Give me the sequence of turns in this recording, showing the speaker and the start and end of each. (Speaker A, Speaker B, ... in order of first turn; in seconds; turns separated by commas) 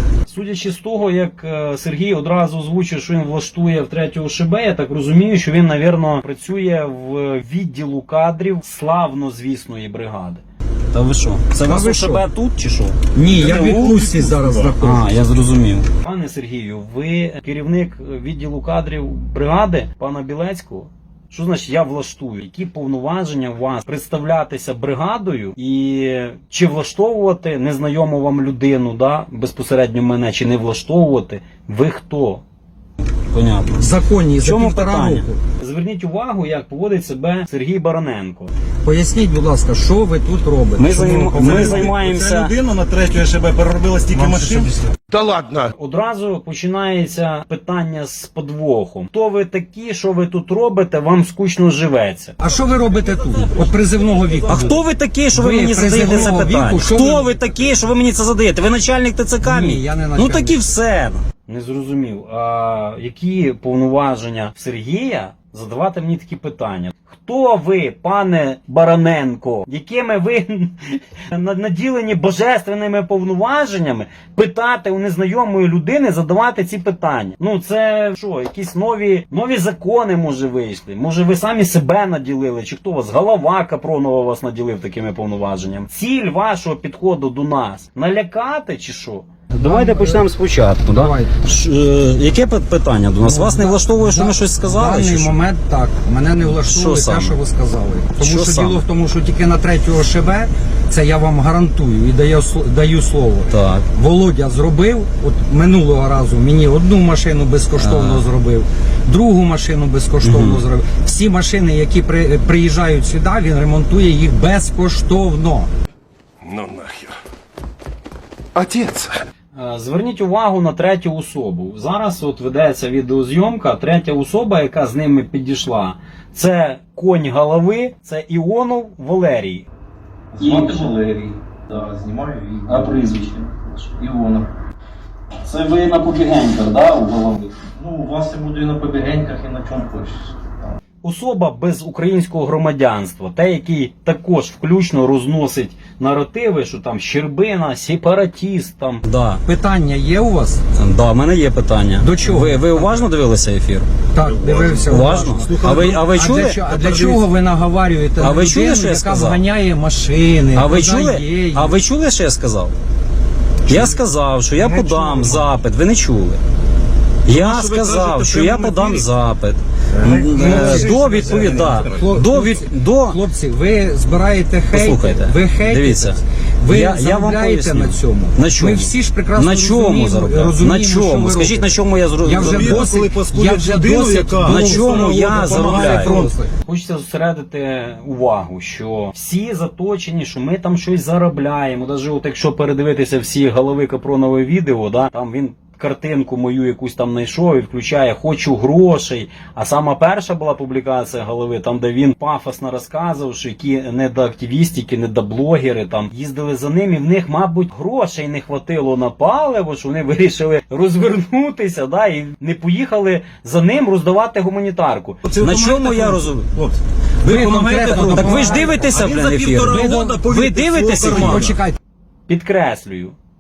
Speaker A: 0.3-13.0, Speaker B: 11.6-12.2, Speaker B: 13.1-15.1, Speaker C: 13.2-14.8, Speaker A: 14.8-32.4, Speaker A: 33.3-33.8, Speaker B: 33.8-35.4, Speaker A: 34.4-38.5, Speaker B: 38.8-41.9, Speaker A: 40.8-42.5, Speaker C: 41.4-44.8, Speaker B: 44.1-44.8, Speaker D: 45.1-45.7, Speaker A: 45.8-52.4, Speaker B: 52.4-54.8, Speaker C: 52.4-54.8, Speaker A: 54.5-95.4, Speaker B: 55.3-57.5, Speaker B: 59.4-60.7, Speaker B: 89.5-90.3, Speaker B: 90.9-91.3, Speaker B: 93.2-115.7, Speaker A: 96.4-97.4, Speaker A: 98.2-98.8, Speaker A: 103.5-103.9, Speaker A: 107.8-108.3, Speaker A: 110.2-110.6, Speaker D: 116.4-117.2, Speaker D: 118.5-119.1, Speaker A: 119.5-129.7, Speaker E: 130.4-134.4, Speaker A: 130.4-131.0, Speaker A: 132.7-133.5, Speaker A: 135.5-137.5, Speaker E: 137.8-140.1, Speaker A: 141.0-149.4, Speaker B: 149.4-150.6, Speaker A: 150.8-153.9, Speaker B: 152.0-152.9, Speaker B: 154.1-161.8, Speaker C: 154.2-157.2, Speaker A: 154.9-156.6, Speaker A: 158.2-159.4, Speaker A: 160.5-162.7, Speaker A: 163.7-166.4, Speaker B: 163.7-164.0, Speaker B: 164.6-165.4, Speaker A: 167.2-173.2, Speaker C: 167.3-169.1, Speaker C: 169.9-172.0, Speaker B: 170.1-186.5, Speaker A: 174.7-182.9, Speaker C: 182.3-186.3, Speaker A: 184.4-216.5, Speaker C: 215.2-221.6, Speaker B: 217.2-218.9, Speaker A: 218.0-221.6, Speaker B: 219.7-220.2, Speaker B: 221.0-221.8, Speaker A: 222.3-223.1